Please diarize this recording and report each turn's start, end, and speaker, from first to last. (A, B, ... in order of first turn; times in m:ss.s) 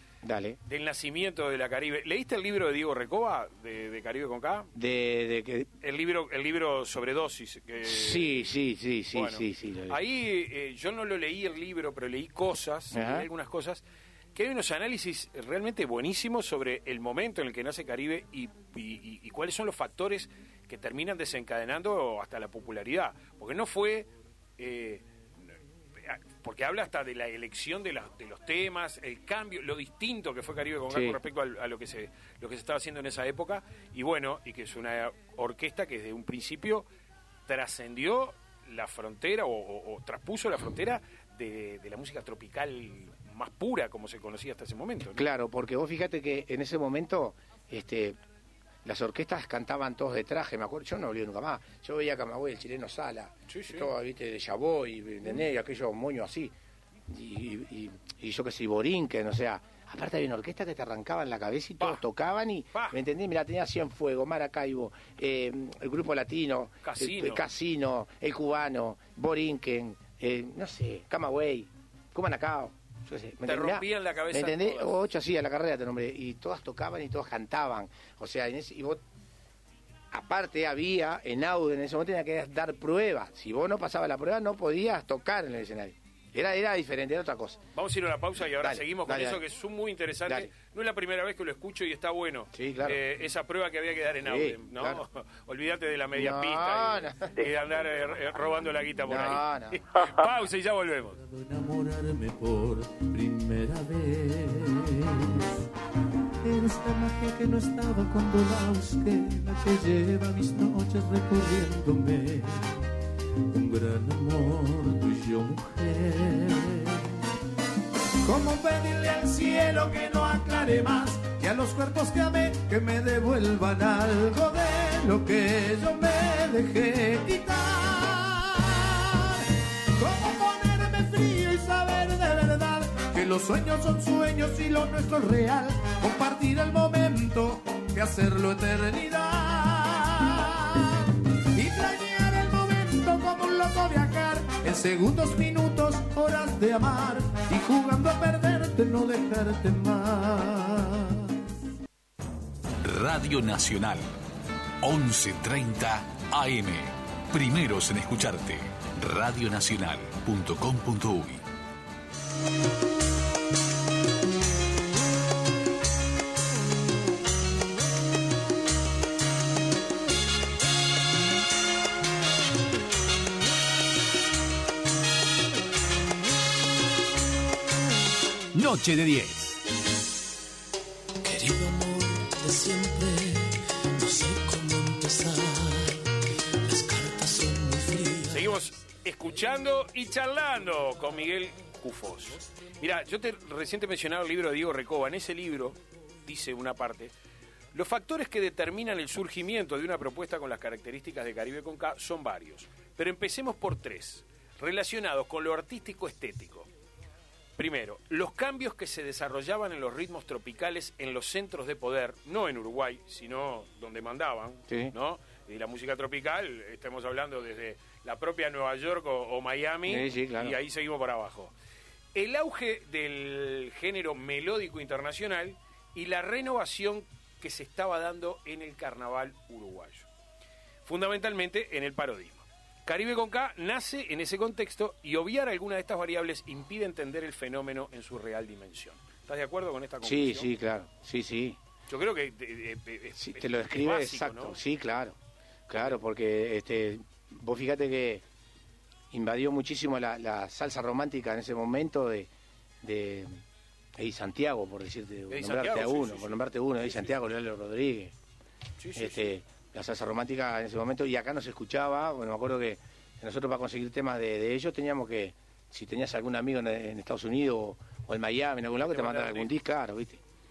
0:00.2-0:00.6 A
0:00.6-0:04.7 B
0:04.7-0:05.7 A
0:05.8-0:08.5 B
0:07.8-0:10.0 A
0:09.1-0:13.8 B
0:12.9-0:13.3 A
0:14.3-0:25.0 B
0:26.0-0:36.8 B
0:30.9-0:31.2 A
0:37.5-0:45.2 B
0:45.1-0:48.2 A
0:48.8-0:56.5 A
0:53.5-0:53.9 B
0:57.1-1:19.0 A
1:02.7-1:03.0 B
1:06.8-1:07.4 B
1:13.4-1:15.0 B
1:20.1-1:27.6 A
1:27.7-1:41.2 B
1:28.5-1:29.4 A
1:30.3-1:30.5 A
1:32.5-1:33.0 A
1:34.2-1:35.0 A
1:36.1-1:37.3 A
1:39.0-1:39.8 A
1:41.2-1:45.4 C
1:46.4-1:52.8 C
1:53.5-1:57.0 C
1:58.2-2:09.4 C
2:10.0-2:31.2 C
2:32.8-2:34.1 D
2:34.8-2:41.4 D
2:58.5-2:59.6 E
3:01.2-3:06.0 E
3:06.6-3:08.5 E
3:08.3-3:17.1 B
3:17.7-3:26.7 B
3:27.6-3:41.5 B
3:34.7-3:34.9 A
3:39.8-3:40.6 A
3:42.1-3:50.1 B
3:50.8-4:00.5 B
4:00.0-4:01.6 A
4:01.9-4:04.6 B
4:03.1-4:05.2 A
4:05.7-4:08.2 A
4:09.1-4:12.3 A
4:12.8-4:13.4 A
4:14.0-4:18.1 A
4:15.3-4:17.2 B
4:18.8-4:19.3 B
4:18.9-4:30.2 A
4:28.8-4:29.5 B